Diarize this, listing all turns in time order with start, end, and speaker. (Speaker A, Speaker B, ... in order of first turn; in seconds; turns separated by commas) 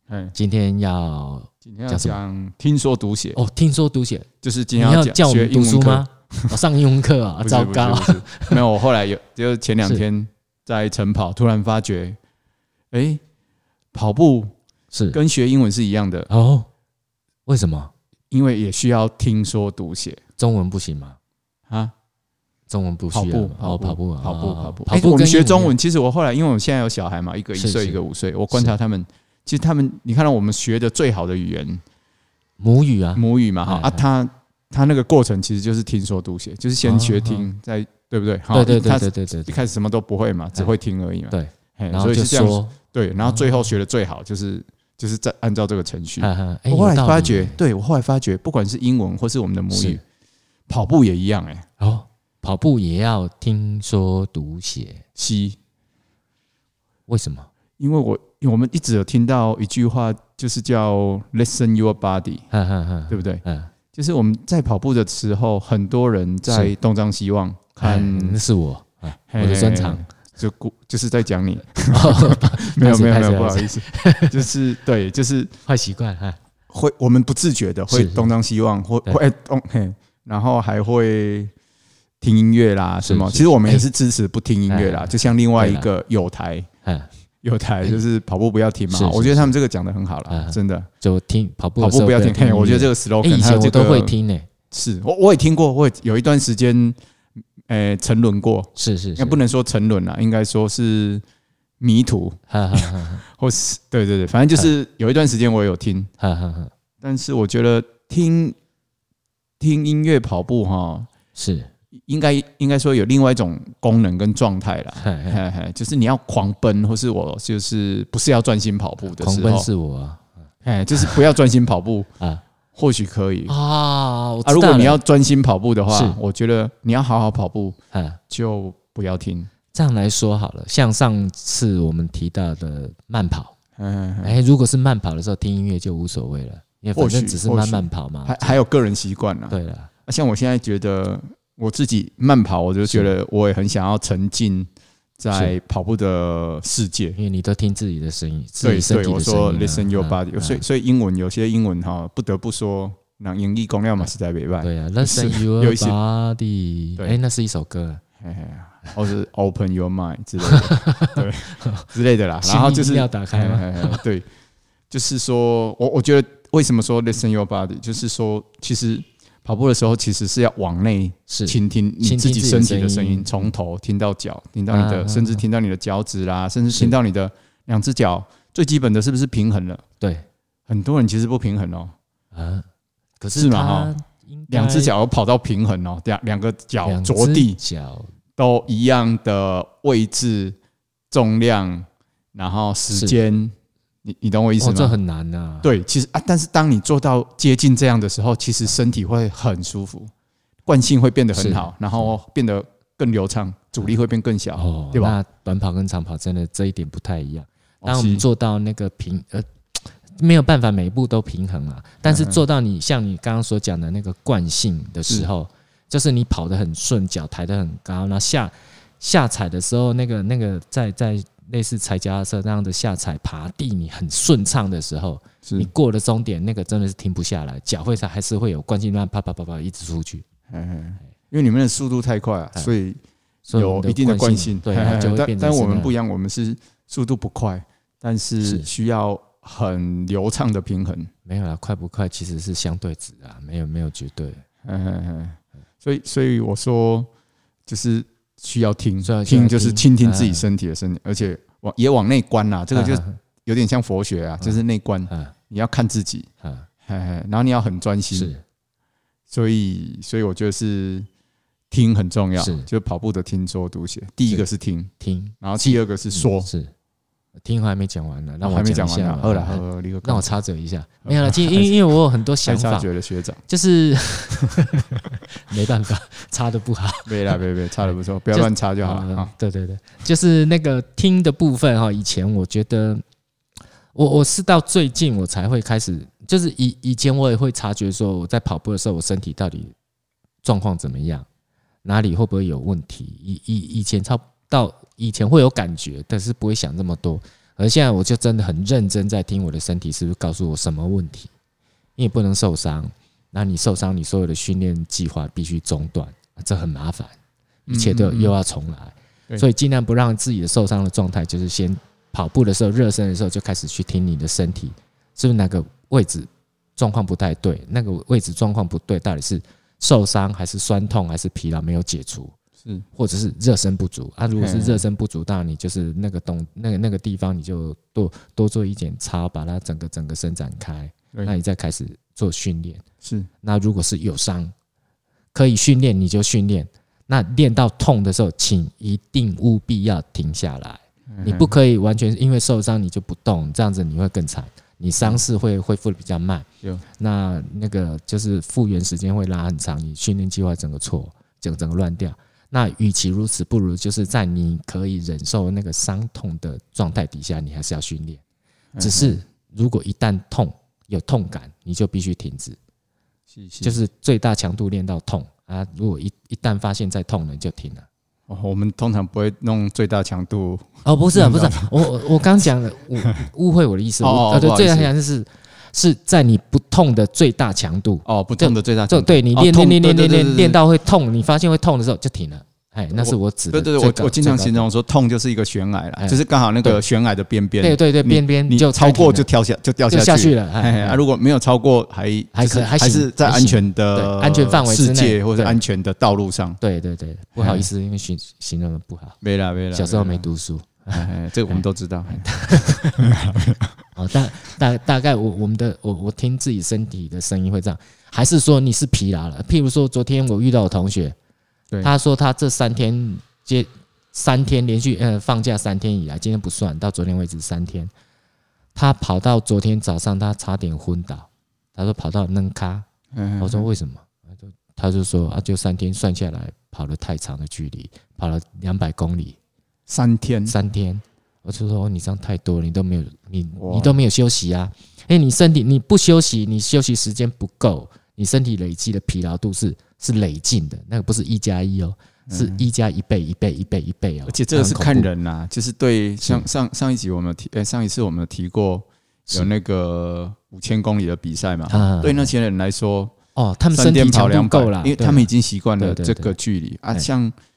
Speaker A: 0.1-0.3, Speaker B: 0.3-2.2, Speaker A: 1.6-3.4, Speaker B: 3.4-8.6, Speaker A: 4.4-6.6, Speaker A: 7.4-12.2, Speaker A: 12.9-13.2, Speaker A: 13.9-14.5, Speaker B: 14.9-15.2, Speaker A: 15.1-16.3, Speaker B: 16.3-16.7, Speaker B: 17.5-17.9, Speaker A: 18.3-20.2, Speaker B: 20.4-21.2, Speaker B: 22.7-25.8, Speaker A: 23.1-31.8, Speaker B: 27.6-28.0, Speaker B: 32.6-34.0, Speaker A: 33.1-50.0, Speaker B: 36.8-37.5, Speaker B: 38.5-39.6, Speaker B: 41.3-43.7, Speaker B: 46.2-47.6, Speaker B: 49.7-50.0, Speaker A: 50.7-51.6, Speaker B: 51.8-55.0, Speaker A: 55.2-55.6, Speaker B: 57.1-57.5, Speaker A: 57.8-62.5, Speaker B: 62.5-63.7, Speaker A: 63.1-63.4, Speaker A: 63.9-68.4, Speaker B: 67.8-70.1, Speaker A: 69.3-75.5, Speaker B: 71.9-74.4, Speaker B: 75.7-76.4, Speaker A: 76.7-81.5, Speaker B: 77.9-78.3, Speaker A: 82.2-86.7, Speaker B: 83.0-83.9, Speaker B: 84.7-85.9, Speaker B: 86.8-87.1, Speaker A: 87.4-90.9, Speaker B: 88.9-89.5, Speaker B: 90.3-94.5, Speaker A: 91.8-94.1, Speaker A: 94.7-97.0, Speaker A: 97.7-101.2, Speaker B: 98.8-99.4, Speaker A: 101.8-106.1, Speaker B: 102.5-103.2, Speaker B: 106.2-106.7, Speaker A: 107.0-108.6, Speaker A: 109.6-111.1, Speaker B: 111.4-111.7, Speaker A: 112.1-119.7, Speaker B: 115.0-115.4, Speaker B: 119.2-120.3, Speaker A: 120.6-122.1, Speaker B: 121.0-121.2, Speaker A: 122.8-123.5, Speaker B: 123.5-125.0, Speaker A: 124.5-127.8, Speaker B: 125.9-126.2, Speaker B: 127.9-128.2, Speaker A: 128.3-129.5, Speaker B: 129.7-133.6, Speaker A: 133.8-134.3, Speaker B: 134.2-138.6, Speaker A: 137.0-139.6, Speaker B: 139.5-139.9, Speaker A: 140.1-147.2, Speaker B: 142.8-143.1, Speaker B: 147.2-150.6, Speaker A: 148.6-156.0, Speaker B: 154.6-158.0, Speaker A: 158.2-164.3, Speaker B: 160.4-161.9, Speaker B: 162.4-164.0, Speaker A: 164.9-179.8, Speaker B: 171.3-173.5, Speaker B: 174.7-175.4, Speaker B: 180.0-180.2, Speaker A: 180.7-181.9, Speaker B: 182.3-182.7, Speaker B: 183.2-184.9, Speaker A: 183.3-183.9, Speaker A: 184.5-187.6, Speaker B: 186.8-188.1, Speaker A: 188.4-190.6, Speaker A: 191.1-195.0, Speaker B: 194.6-195.7, Speaker A: 195.6-200.1, Speaker A: 200.7-205.2, Speaker B: 201.4-202.1, Speaker B: 204.6-230.2, Speaker A: 207.8-208.2, Speaker A: 212.1-212.4, Speaker A: 225.4-225.7, Speaker A: 230.5-233.0, Speaker B: 233.5-235.9, Speaker A: 233.5-241.1, Speaker B: 238.4-238.7, Speaker B: 241.3-244.4, Speaker A: 244.6-247.1, Speaker A: 247.7-256.3, Speaker B: 249.0-250.4, Speaker B: 252.7-253.2, Speaker B: 254.4-255.3, Speaker B: 256.4-256.7, Speaker A: 256.9-258.3, Speaker B: 258.1-258.4, Speaker A: 259.3-261.1, Speaker A: 261.7-264.9, Speaker B: 262.4-262.7, Speaker B: 265.0-266.7, Speaker A: 265.4-266.5, Speaker B: 267.4-272.9, Speaker A: 268.4-270.4, Speaker A: 271.1-271.7, Speaker A: 272.4-273.4, Speaker B: 273.5-277.4, Speaker A: 277.1-279.3, Speaker B: 278.3-283.0, Speaker B: 283.9-289.7, Speaker B: 290.4-291.3, Speaker B: 291.9-301.3, Speaker B: 302.0-307.2, Speaker A: 307.7-308.3, Speaker B: 307.7-322.4, Speaker B: 322.9-332.8, Speaker A: 324.4-324.9, Speaker A: 333.0-333.3, Speaker B: 333.4-334.5, Speaker B: 335.3-346.5, Speaker A: 341.1-341.5, Speaker B: 347.0-358.2, Speaker A: 358.8-359.2, Speaker B: 358.8-362.6, Speaker A: 363.3-363.8, Speaker B: 363.6-367.9, Speaker A: 368.3-371.8, Speaker B: 370.8-384.7, Speaker A: 374.0-374.9, Speaker A: 378.1-380.6, Speaker A: 382.9-396.6, Speaker B: 386.0-386.8, Speaker B: 387.6-389.3, Speaker B: 389.9-391.0, Speaker B: 392.3-395.6, Speaker B: 396.6-399.2, Speaker A: 397.4-397.7, Speaker A: 399.2-400.3, Speaker B: 399.7-403.1, Speaker A: 400.9-403.8, Speaker B: 404.0-411.2, Speaker B: 411.8-417.9, Speaker B: 418.8-422.9, Speaker A: 423.1-423.7, Speaker B: 423.4-429.4, Speaker A: 429.9-430.6, Speaker B: 430.5-445.1, Speaker A: 433.6-434.0, Speaker A: 442.3-442.6, Speaker A: 444.3-453.1, Speaker B: 446.2-446.5, Speaker B: 451.7-452.3, Speaker B: 453.4-456.4, Speaker A: 453.7-457.3